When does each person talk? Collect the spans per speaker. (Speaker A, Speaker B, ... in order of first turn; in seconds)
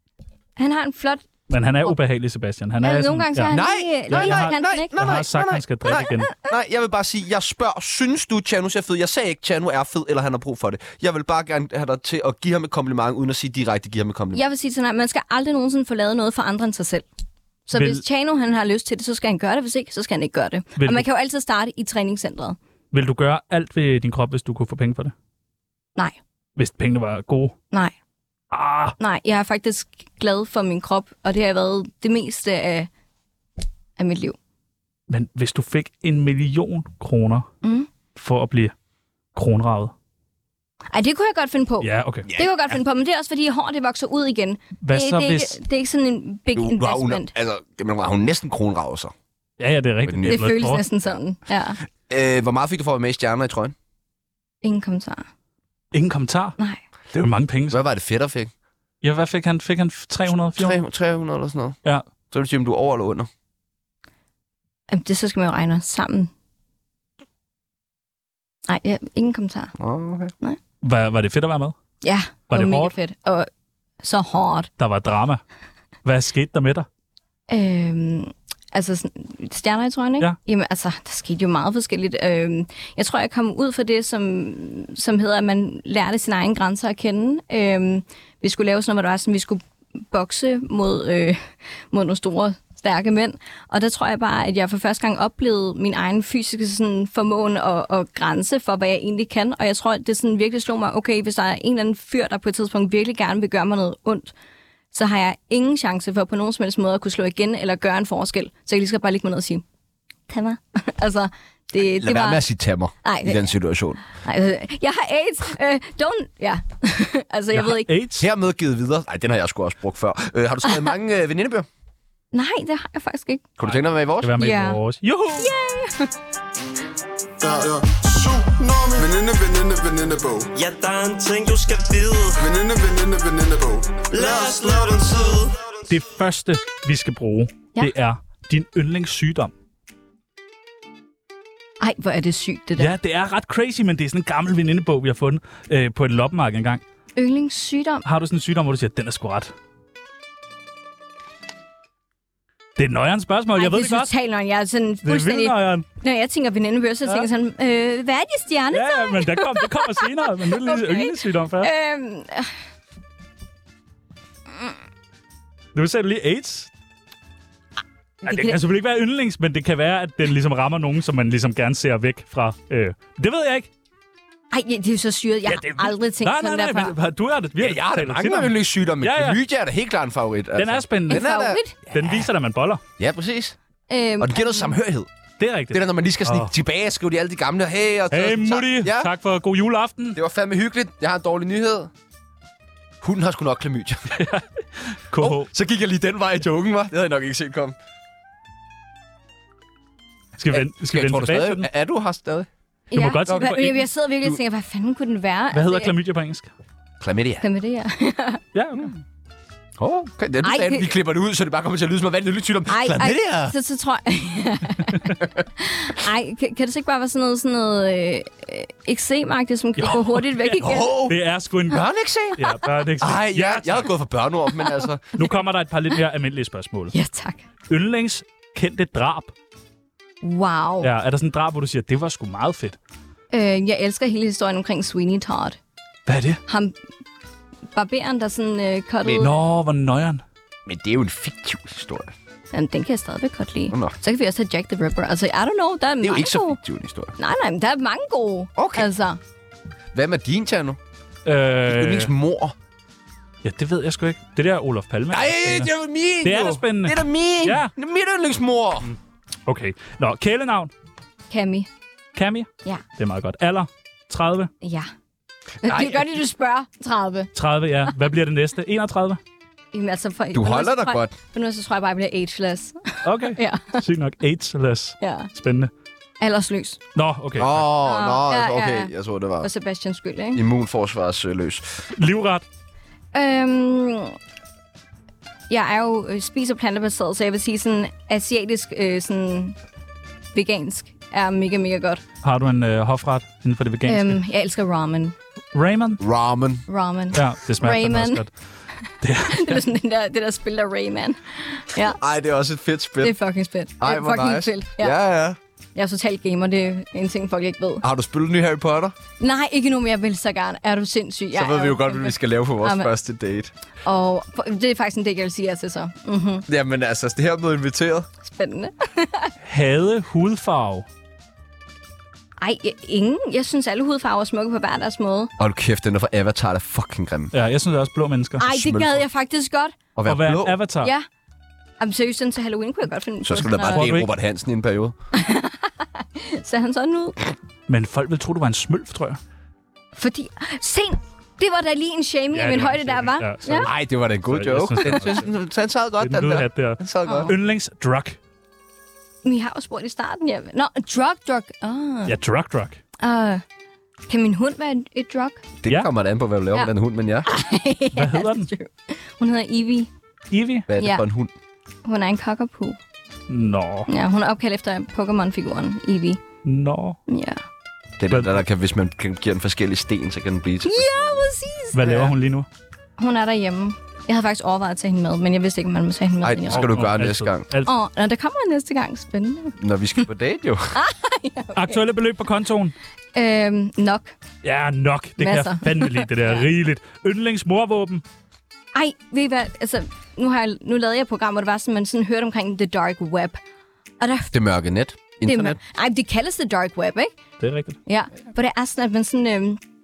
Speaker A: 0.6-1.2, 2.8-5.0, 5.9-6.3, 14.3-17.1, 17.7-22.6, 29.0-32.9, 34.0-34.4, 37.6-37.9, 40.9-47.3, 50.3-51.8, 54.6-55.3, 64.9-66.3, 68.7-69.7, 72.0-73.5, 74.0-74.7, 77.5-91.4, 91.9-104.3, 104.9-109.6, 110.3-112.4, 113.0-113.5, 114.1-117.9, 122.3-123.4, 124.4-124.8, 125.4-126.1, 141.8-142.9, 147.2-148.1, 153.6-162.5, 168.2-168.6, 174.5-176.9, 181.1-181.8, 183.9-184.7, 202.9-205.9, 207.4-208.4, 210.4-210.9, 212.7-220.9, 226.9-227.4, 230.2-230.9, 233.3-235.6, 236.5-236.7, 237.7-239.3, 242.5-246.6, 247.2-249.2, 261.3-261.7, 264.6-264.9, 265.6-267.3, 269.7-273.8, 275.0-275.3, 276.2-276.8, 277.8-280.4, 283.1-284.2, 285.5-289.6, 290.3-292.0, 293.9-295.1, 296.7-298.2, 298.8-302.0, 303.0-304.9, 305.8-307.9, 309.2-312.9, 313.8-316.4, 318.2-319.3, 322.4-325.3, 328.4-329.8, 331.8-333.9, 335.1-337.2, 339.9-343.7, 347.1-347.3, 349.2-352.1, 353.0-353.4, 354.1-355.4, 357.2-359.9, 360.8-361.0, 361.9-362.8, 363.9-366.2, 367.1-367.4, 370.6-371.9, 373.0-376.7, 377.6-379.6, 380.7-381.8, 383.1-384.1, 385.2-386.4, 388.7-393.4, 394.0-394.3, 395.2-397.1, 397.9-399.6
Speaker B: 1.5-3.6, 4.1-6.3, 17.7-18.0, 20.8-21.1, 22.9-25.1, 26.6-27.6, 28.5-28.9, 35.1-37.5, 38.1-38.7, 39.4-39.9, 41.8-42.3, 44.8-45.6, 49.6-50.8, 55.9-56.6, 57.1-57.8, 59.0-60.8, 70.8-71.8, 72.5-72.9, 74.8-75.4, 76.0-76.9, 117.5-118.2, 123.7-125.5, 135.9-139.5, 142.8-146.8, 148.1-149.5, 152.8-154.1, 155.0-155.8, 158.7-161.7, 165.7-166.7, 168.3-173.7, 175.4-179.4, 180.6-181.3, 181.9-182.8, 185.4-186.5, 188.1-190.2, 194.1-195.5, 200.4-201.7, 202.9-203.8, 205.5-206.5, 208.6-208.9, 219.8-221.8, 222.4-223.9, 225.1-226.9, 227.7-229.3, 230.8-232.8, 236.1-236.4, 239.1-240.2, 251.2-252.1, 253.4-257.7, 259.4-260.7, 262.1-264.5, 267.4-269.2, 273.1-275.7, 276.9-277.6, 281.9-282.4, 292.2-294.2, 295.5-296.0, 297.1-298.3, 299.0-299.6, 319.4-320.9, 327.3-328.5, 330.1-330.9, 333.6-334.1, 337.7-339.2, 342.3-345.3, 346.0-348.2, 352.1-352.8, 357.9-358.5, 360.3-360.7, 363.3-363.9, 366.4-367.0, 368.1-368.4, 371.7-372.5, 376.5-377.7, 381.6-382.7, 384.4-388.0, 397.4-397.8
Speaker C: 3.5-14.4, 42.2-42.6, 46.5-49.1, 50.1-50.5, 52.1-53.7, 57.7-58.5, 60.5-61.8, 62.3-63.3, 69.8-70.3, 111.9-114.0, 118.2-121.7, 123.6-124.3, 177.6-182.0, 183.0-183.6, 184.2-185.1, 185.7-189.1, 190.1-191.9, 193.0-194.2, 195.2-197.8, 200.5-202.5, 207.0-207.4, 209.8-213.6, 220.6-221.2, 221.7-225.1, 240.7-242.1, 246.0-247.1, 248.6-248.9, 249.9-250.8, 251.6-252.6, 255.1-258.9, 265.6-266.1, 270.3-271.1, 277.4-279.5, 280.3-281.9, 296.0-296.6, 301.9-303.1, 303.8-305.4, 307.8-308.9, 311.3-313.5, 316.5-318.1, 325.4-327.3, 328.4-329.0, 329.9-330.6, 333.2-334.9, 343.6-347.3, 355.6-357.3, 360.7-361.3, 368.0-371.2, 371.8-372.1, 376.2-377.4, 379.6-380.7, 394.3-395.6
Speaker D: 127.4-130.5, 132.4-135.3
Speaker E: 130.6-132.4, 134.1-135.6